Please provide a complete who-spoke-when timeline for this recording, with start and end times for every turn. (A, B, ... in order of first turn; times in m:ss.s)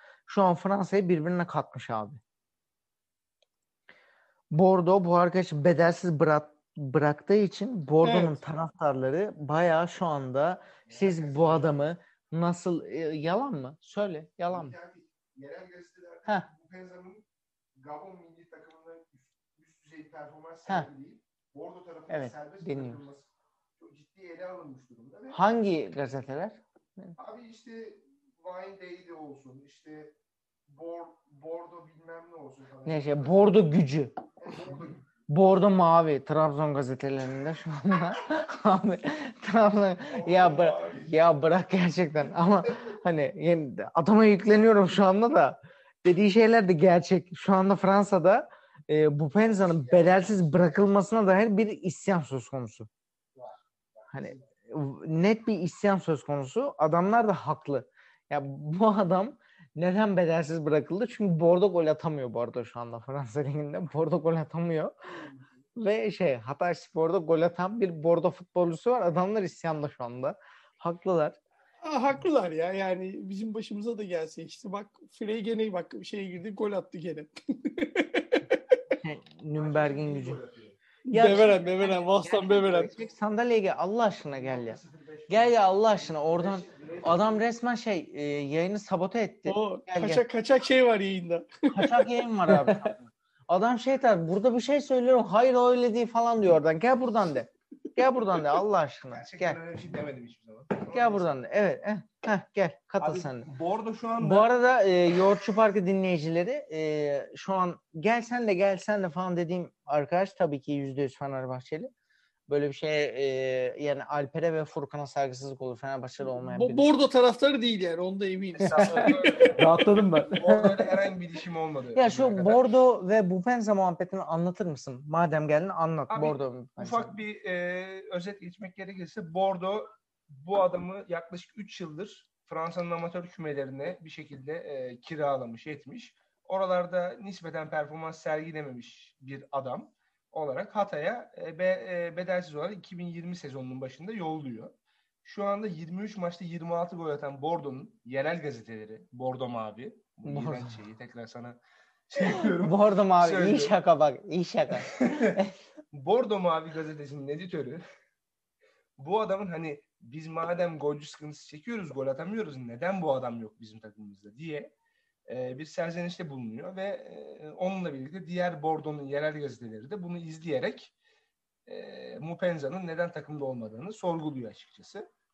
0:00.3-0:02.2 A
0:04.5-0:14.8 A
0:08.0-0:08.4 B
0:10.9-0:11.8 C
0:14.5-0:17.2 C
0:17.8-0:25.4 C
0:22.1-0:23.0 A
0:25.3-0:27.2 A
0:27.2-0:30.2 C
0:30.7-0:33.5 C
0:32.8-0:34.1 A
0:34.4-0:35.0 C
0:35.3-0:52.9 A
0:40.1-0:41.1 C
0:49.5-0:50.0 C
0:53.4-0:54.4 C
0:54.1-1:04.9 A
1:05.8-1:11.4 A
1:11.8-1:18.8 B
1:19.0-1:20.4 A
1:19.5-1:20.8 C
1:21.1-1:22.9 B
1:21.1-1:30.2 A
1:24.4-1:27.4 C
1:29.5-1:32.0 B
1:31.7-1:39.6 A
1:32.5-1:32.9 D
1:39.1-1:41.4 C
1:40.9-1:43.5 A
1:43.0-1:44.5 C
1:44.2-1:51.9 A
1:52.5-1:56.9 A
1:56.2-1:59.6 B
1:58.6-1:59.2 A
1:58.8-2:01.0 D
1:58.9-1:59.6 C
2:00.3-2:02.7 C
2:02.0-2:07.2 A
2:06.1-2:24.7 C
2:25.2-2:31.6 C
2:30.2-2:30.8 A
2:32.1-2:33.8 C
2:32.2-2:35.5 A
2:34.9-2:35.4 C
2:35.9-2:37.8 C
2:39.0-2:44.7 C
2:45.3-2:50.9 C
2:51.7-2:55.1 C